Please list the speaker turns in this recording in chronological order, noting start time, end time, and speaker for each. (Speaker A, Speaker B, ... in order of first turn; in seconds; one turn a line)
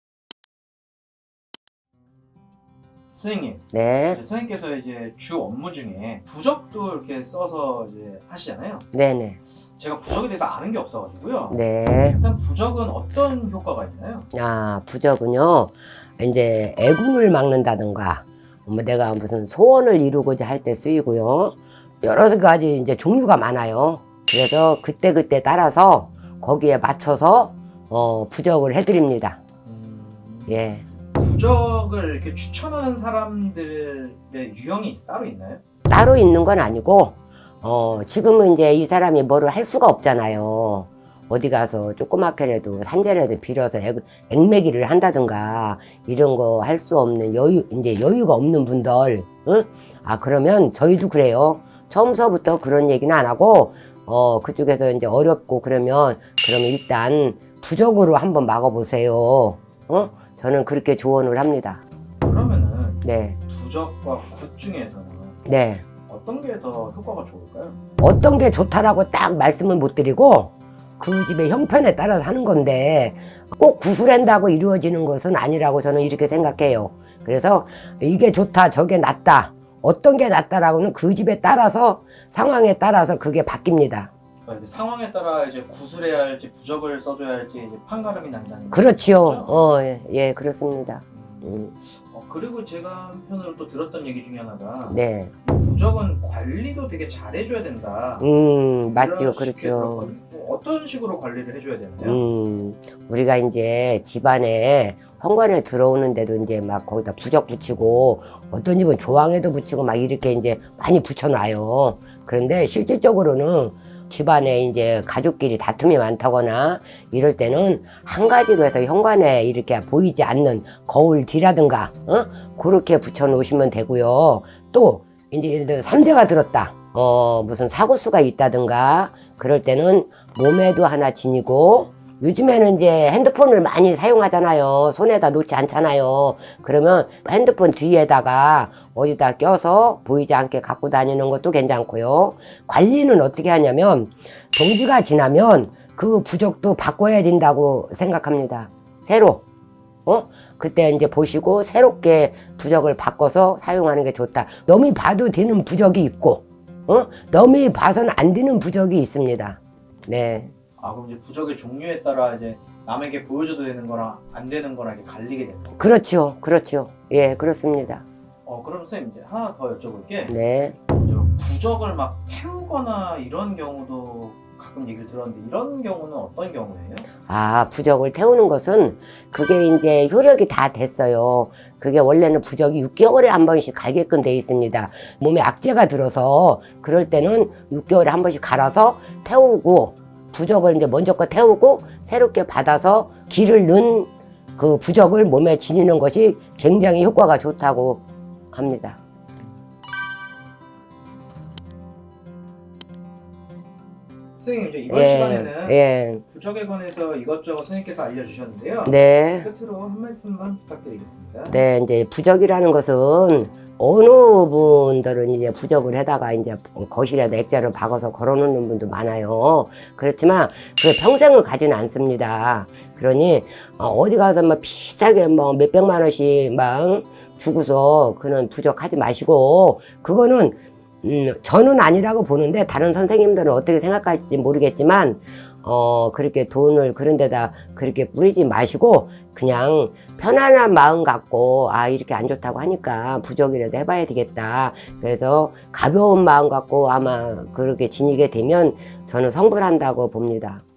Speaker A: 3.1-8.9
Speaker B: 3.7-4.2
Speaker B: 8.9-9.4
Speaker A: 9.7-11.6
Speaker B: 11.5-12.2
Speaker A: 12.1-14.3
Speaker B: 14.3-29.4
Speaker A: 29.6-35.6
Speaker B: 30.5-30.8
Speaker B: 35.9-61.8
Speaker A: 62.2-65.4
Speaker B: 63.0-63.4
Speaker B: 65.5-65.8
Speaker A: 66.1-67.8
Speaker B: 68.0-84.1
Speaker A: 84.5-89.6
Speaker B: 88.7-91.7
Speaker A: 91.1-98.3
Speaker B: 94.9-95.3
Speaker B: 98.2-100.1
Speaker A: 98.9-102.2
Speaker B: 102.0-149.4
Speaker B: 150.1-160.5
Speaker A: 160.8-166.0
Speaker B: 165.8-168.0
Speaker A: 168.4-177.1
Speaker B: 170.3-170.8
Speaker B: 177.3-199.0
Speaker A: 204.4-211.6
Speaker B: 204.9-206.2
Speaker B: 208.8-209.5
Speaker B: 211.5-250.6